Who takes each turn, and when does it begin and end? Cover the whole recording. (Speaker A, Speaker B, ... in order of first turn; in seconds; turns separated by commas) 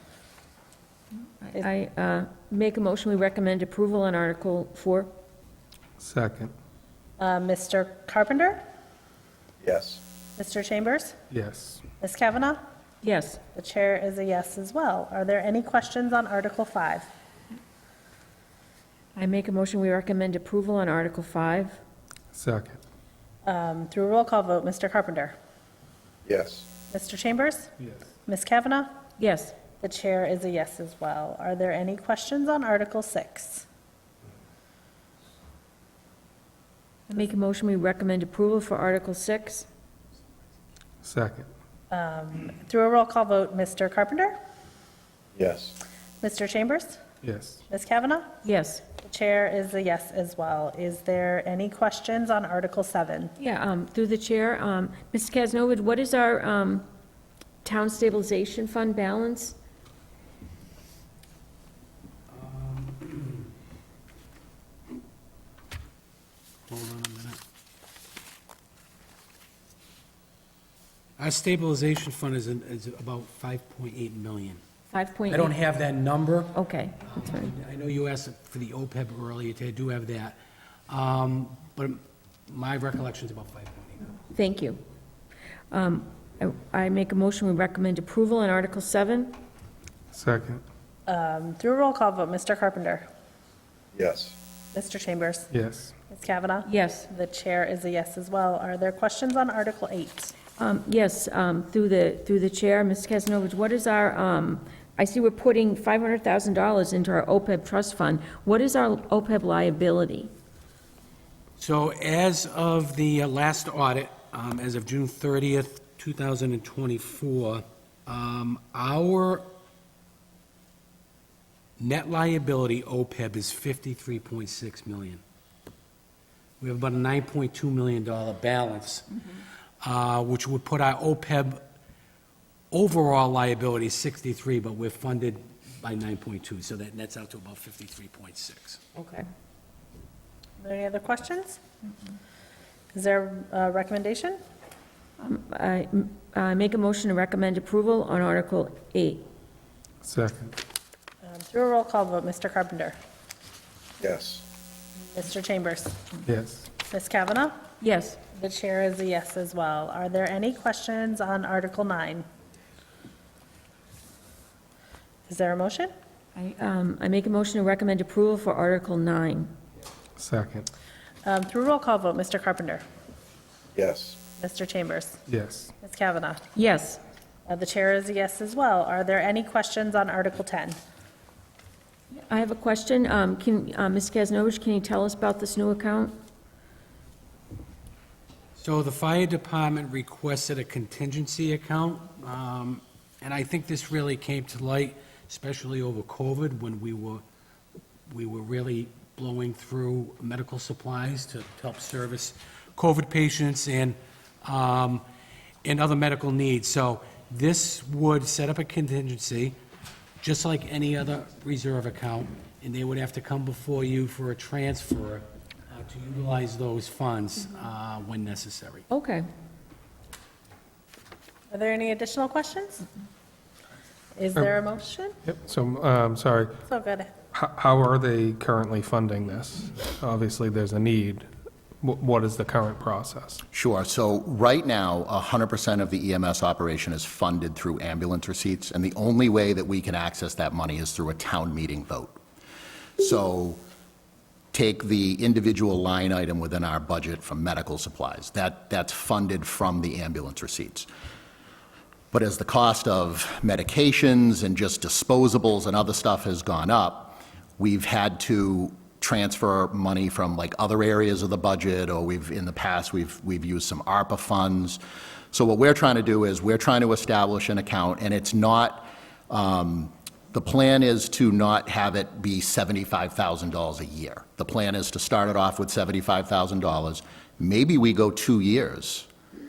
Speaker A: 1.4-5.1, Speaker B: 6.0-6.5, Speaker C: 7.2-8.6, Speaker D: 9.6-10.0, Speaker C: 10.4-11.2, Speaker B: 11.3-11.8, Speaker C: 12.0-12.6, Speaker A: 13.0-13.4, Speaker C: 13.5-17.1, Speaker A: 19.2-21.8, Speaker B: 22.3-22.8, Speaker C: 23.4-25.4, Speaker D: 26.3-26.7, Speaker C: 26.9-27.7, Speaker C: 28.3-28.9, Speaker A: 29.2-29.6, Speaker C: 29.8-33.7, Speaker A: 37.1-39.7, Speaker B: 41.0-41.5, Speaker C: 41.9-44.4, Speaker D: 45.4-45.8, Speaker C: 46.2-47.0, Speaker B: 47.2-47.6, Speaker C: 47.7-48.4, Speaker A: 48.4-48.9, Speaker C: 49.0-53.4, Speaker A: 53.4-56.9, Speaker A: 57.6-59.6, Speaker E: 62.3-63.4, Speaker E: 66.7-67.4, Speaker E: 71.2-74.6, Speaker A: 74.9-75.5, Speaker E: 75.3-80.4, Speaker A: 76.5-77.5, Speaker E: 80.9-84.2, Speaker A: 84.3-84.8, Speaker A: 85.7-89.4, Speaker B: 90.1-90.6, Speaker C: 91.1-93.1, Speaker D: 93.9-94.3, Speaker C: 94.7-95.5, Speaker B: 95.5-95.9, Speaker C: 96.1-100.3, Speaker A: 96.7-97.1, Speaker A: 100.6-110.3, Speaker E: 111.6-119.5, Speaker E: 121.8-125.2, Speaker E: 126.6-129.1, Speaker E: 129.8-131.6, Speaker E: 132.7-138.8, Speaker A: 138.9-139.3, Speaker C: 140.6-141.6, Speaker C: 142.9-144.4, Speaker A: 145.2-149.3, Speaker B: 150.0-150.5, Speaker C: 151.2-153.0, Speaker D: 154.0-154.4, Speaker C: 155.1-156.0, Speaker B: 156.3-156.7, Speaker C: 156.9-157.6, Speaker A: 157.8-158.2, Speaker C: 158.3-162.3, Speaker C: 165.3-165.9, Speaker A: 166.4-169.5, Speaker B: 170.2-170.7, Speaker C: 171.2-172.8, Speaker D: 173.8-174.2, Speaker C: 174.4-175.2, Speaker B: 175.3-175.7, Speaker C: 175.8-176.5, Speaker A: 176.6-177.0, Speaker C: 177.5-180.8, Speaker A: 182.2-186.2, Speaker E: 188.6-197.2, Speaker E: 198.1-205.0, Speaker E: 205.6-209.6, Speaker E: 210.2-218.9, Speaker A: 218.9-219.3, Speaker C: 221.5-222.8, Speaker C: 224.2-225.2, Speaker B: 225.2-226.6, Speaker C: 226.7-227.1, Speaker B: 227.3-231.3, Speaker B: 231.8-233.4, Speaker F: 233.5-242.2, Speaker F: 243.0-243.6, Speaker F: 244.5-250.9, Speaker F: 252.1-264.8, Speaker F: 265.3-279.1